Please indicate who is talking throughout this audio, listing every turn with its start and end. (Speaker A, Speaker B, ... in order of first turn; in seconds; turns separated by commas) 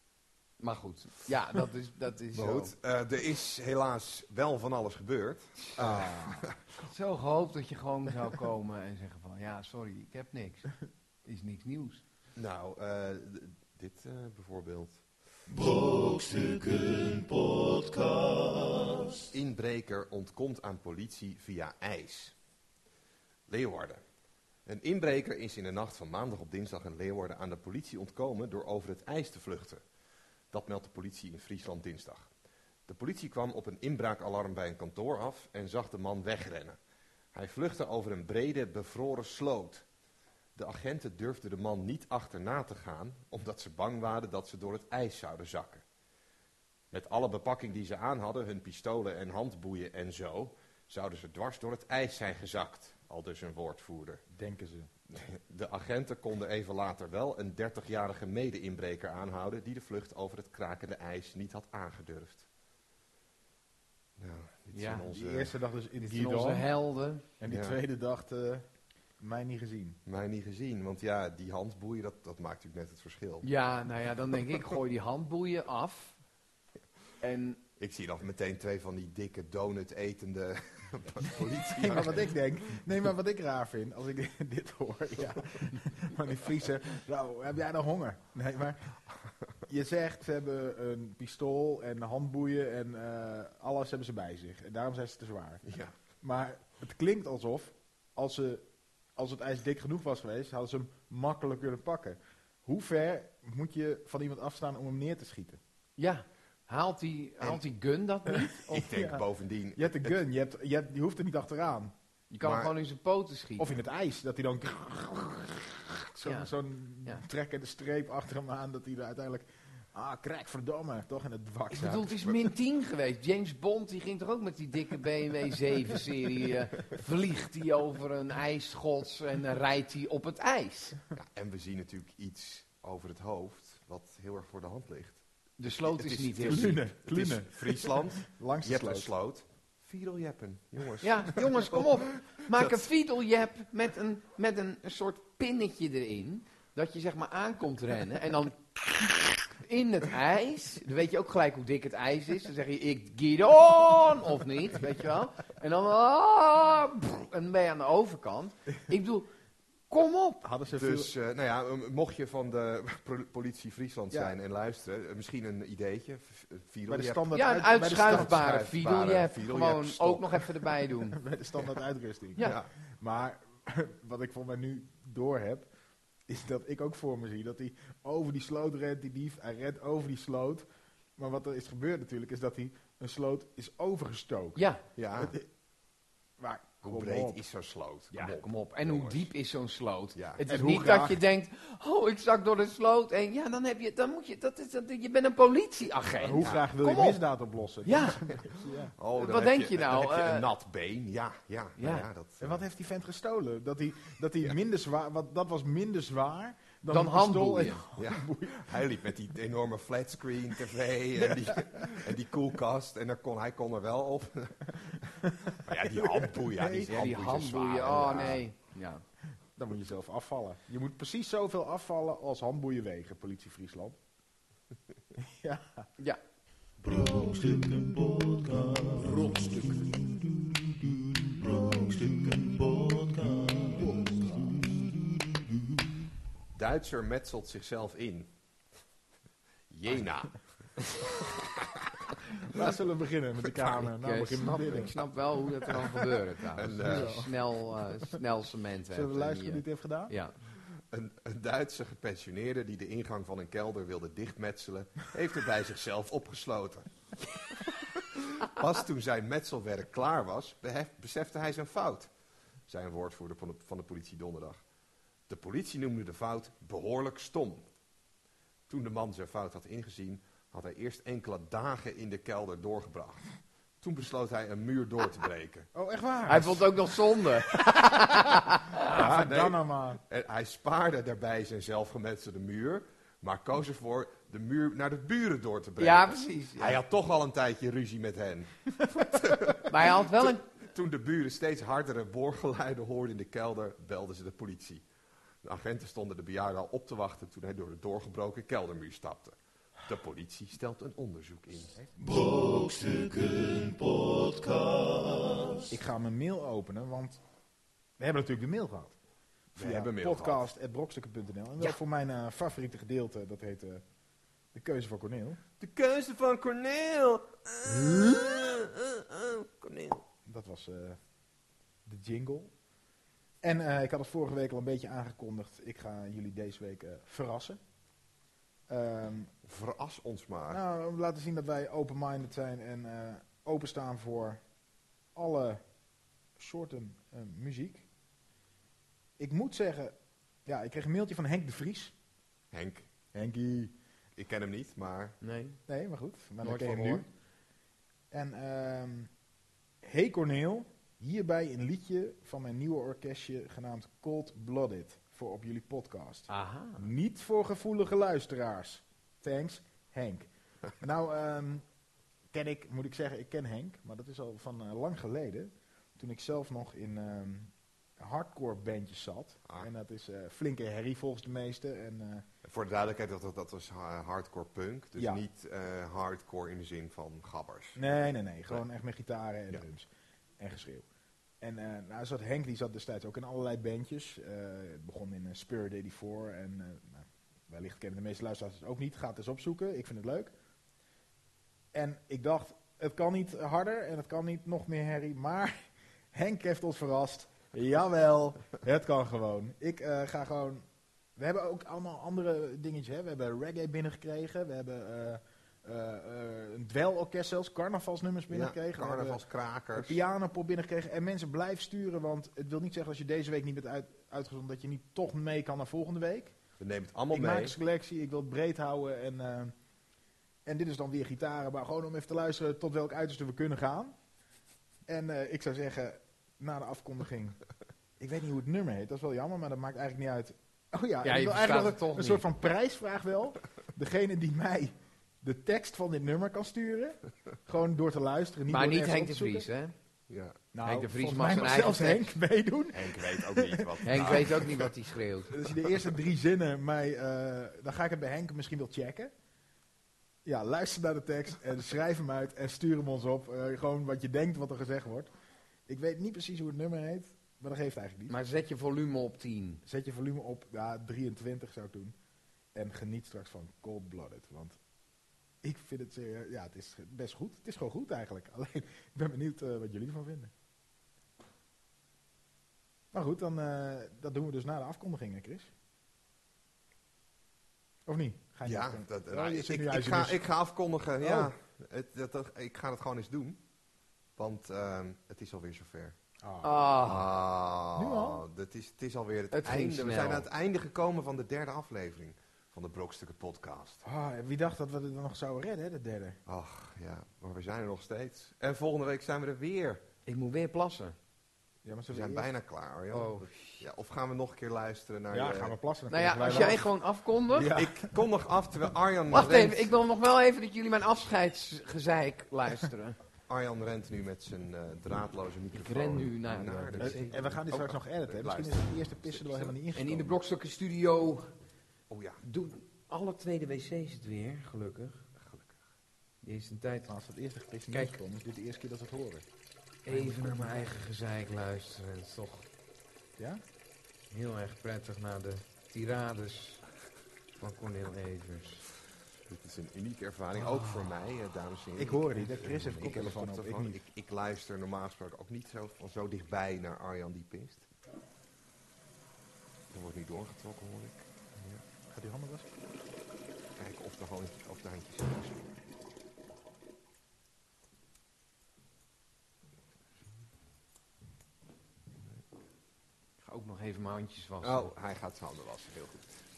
Speaker A: 0.6-2.7, Speaker B: 2.3-6.6, Speaker C: 5.8-6.4, Speaker A: 6.8-10.7, Speaker A: 11.2-12.0, Speaker B: 12.3-15.0, Speaker D: 15.5-19.3, Speaker B: 19.3-22.3, Speaker B: 23.5-24.0, Speaker B: 24.6-29.8, Speaker B: 30.5-32.3, Speaker B: 32.9-36.8, Speaker B: 37.3-39.8, Speaker B: 40.5-45.8, Speaker B: 46.9-54.2, Speaker C: 54.3-54.9, Speaker B: 55.1-62.5, Speaker B: 64.2-65.5, Speaker A: 64.7-65.1, Speaker C: 65.1-66.7, Speaker A: 66.0-67.2, Speaker C: 67.4-68.7, Speaker B: 67.5-67.8, Speaker C: 69.2-70.0, Speaker B: 70.0-73.5, Speaker A: 73.4-76.2, Speaker A: 77.2-77.6, Speaker B: 77.8-82.4, Speaker C: 81.7-89.0, Speaker C: 89.7-95.6, Speaker B: 95.6-95.9, Speaker C: 96.2-98.6, Speaker C: 99.2-105.6, Speaker A: 106.0-108.8, Speaker B: 108.6-110.2, Speaker C: 108.7-109.2, Speaker C: 109.8-111.9, Speaker A: 112.3-113.7, Speaker B: 112.4-112.7, Speaker C: 113.6-122.2, Speaker A: 116.2-116.5, Speaker A: 121.7-131.0, Speaker B: 131.1-135.2, Speaker A: 135.6-136.8, Speaker B: 135.8-142.8, Speaker C: 136.4-139.1, Speaker A: 141.0-159.3, Speaker A: 159.9-160.4, Speaker C: 160.4-161.1, Speaker B: 160.7-170.5, Speaker C: 166.9-168.4, Speaker A: 167.3-171.2, Speaker C: 171.1-175.7, Speaker B: 172.4-172.7, Speaker C: 176.3-180.7, Speaker C: 181.2-184.6, Speaker A: 184.6-184.8, Speaker B: 184.9-185.3, Speaker C: 185.2-185.5, Speaker C: 186.4-187.4, Speaker B: 186.8-189.3, Speaker A: 188.1-197.2, Speaker B: 190.1-190.4, Speaker C: 190.4-191.2, Speaker C: 196.2-198.9, Speaker A: 197.8-198.2, Speaker B: 199.0-202.6, Speaker A: 199.1-200.4, Speaker A: 201.8-202.1, Speaker C: 202.4-208.8, Speaker A: 206.9-207.8, Speaker B: 207.9-218.4, Speaker C: 211.2-212.1, Speaker C: 215.2-216.9, Speaker A: 216.9-219.0, Speaker C: 219.6-224.0, Speaker C: 225.2-225.8, Speaker D: 226.8-235.9, Speaker C: 234.0-234.4, Speaker B: 236.5-238.3, Speaker B: 239.7-242.0, Speaker C: 242.3-244.9, Speaker A: 243.8-250.3, Speaker B: 246.6-247.3, Speaker C: 246.8-247.3, Speaker C: 248.9-250.1, Speaker B: 250.9-262.1, Speaker B: 262.7-264.6, Speaker B: 265.3-267.7, Speaker B: 268.7-275.7, Speaker C: 275.7-276.7, Speaker A: 276.3-279.0, Speaker C: 278.9-280.0, Speaker B: 278.9-294.8, Speaker A: 285.8-286.8, Speaker A: 289.7-290.4, Speaker B: 295.4-301.8, Speaker D: 302.0-305.7, Speaker C: 305.7-307.2, Speaker C: 308.0-308.9, Speaker B: 309.5-310.4, Speaker C: 309.5-313.8, Speaker C: 314.5-315.4, Speaker B: 315.6-320.0, Speaker C: 320.2-321.0, Speaker C: 321.9-322.5, Speaker C: 323.4-327.6, Speaker C: 328.7-329.3, Speaker B: 329.4-330.6, Speaker C: 330.5-334.4, Speaker C: 335.1-335.6, Speaker C: 336.4-337.9, Speaker C: 339.2-339.9, Speaker C: 340.4-341.9, Speaker B: 342.5-342.9, Speaker C: 343.1-343.7, Speaker B: 344.2-345.2, Speaker A: 345.2-345.6, Speaker C: 345.7-347.1, Speaker A: 346.4-347.0, Speaker C: 348.1-349.1, Speaker C: 349.8-360.3, Speaker A: 356.3-356.9, Speaker C: 360.8-361.6, Speaker C: 362.3-372.2, Speaker B: 372.4-377.8, Speaker C: 375.0-375.2, Speaker C: 377.8-379.9, Speaker C: 380.4-380.8, Speaker C: 381.4-390.3, Speaker C: 391.7-400.6, Speaker C: 401.1-409.2, Speaker B: 408.3-410.0, Speaker C: 409.7-416.4, Speaker B: 416.6-417.6, Speaker C: 417.1-419.5, Speaker C: 420.4-423.9, Speaker C: 424.9-427.4, Speaker C: 428.0-439.5, Speaker A: 431.0-432.2, Speaker A: 438.5-439.7, Speaker B: 440.1-440.4, Speaker C: 440.5-444.4, Speaker A: 440.6-442.1, Speaker B: 442.7-444.7, Speaker A: 443.8-445.4, Speaker C: 445.3-449.1, Speaker C: 450.2-455.1, Speaker C: 455.7-458.1, Speaker A: 458.1-459.6, Speaker C: 459.6-461.9, Speaker C: 462.5-464.6, Speaker C: 465.4-470.3, Speaker C: 472.9-475.5, Speaker C: 477.9-480.2, Speaker B: 478.4-483.4, Speaker C: 481.0-481.3, Speaker B: 484.2-486.0, Speaker C: 486.2-486.6, Speaker A: 486.4-487.1, Speaker B: 486.8-493.8, Speaker C: 487.8-488.2, Speaker A: 489.3-490.3, Speaker C: 493.8-496.2, Speaker B: 496.2-499.8, Speaker A: 500.1-500.9, Speaker C: 501.6-502.3, Speaker B: 501.9-505.6, Speaker A: 502.9-503.6, Speaker C: 505.1-506.7, Speaker A: 505.9-507.6, Speaker B: 506.2-506.6, Speaker C: 507.3-507.9, Speaker B: 507.5-509.7, Speaker A: 509.1-513.0, Speaker B: 513.3-519.6, Speaker A: 515.5-517.3, Speaker C: 516.8-520.2, Speaker A: 519.7-521.3, Speaker B: 521.9-522.2, Speaker A: 522.2-525.0, Speaker B: 525.2-525.5, Speaker A: 526.2-526.9, Speaker C: 526.9-529.2, Speaker A: 529.8-532.5, Speaker C: 529.9-530.7, Speaker A: 534.1-536.6, Speaker A: 537.4-538.6, Speaker B: 539.3-547.7, Speaker A: 540.4-540.9, Speaker C: 541.8-543.8, Speaker B: 549.7-551.6, Speaker C: 551.9-552.5, Speaker B: 553.5-555.5, Speaker A: 563.2-564.7, Speaker B: 564.4-566.2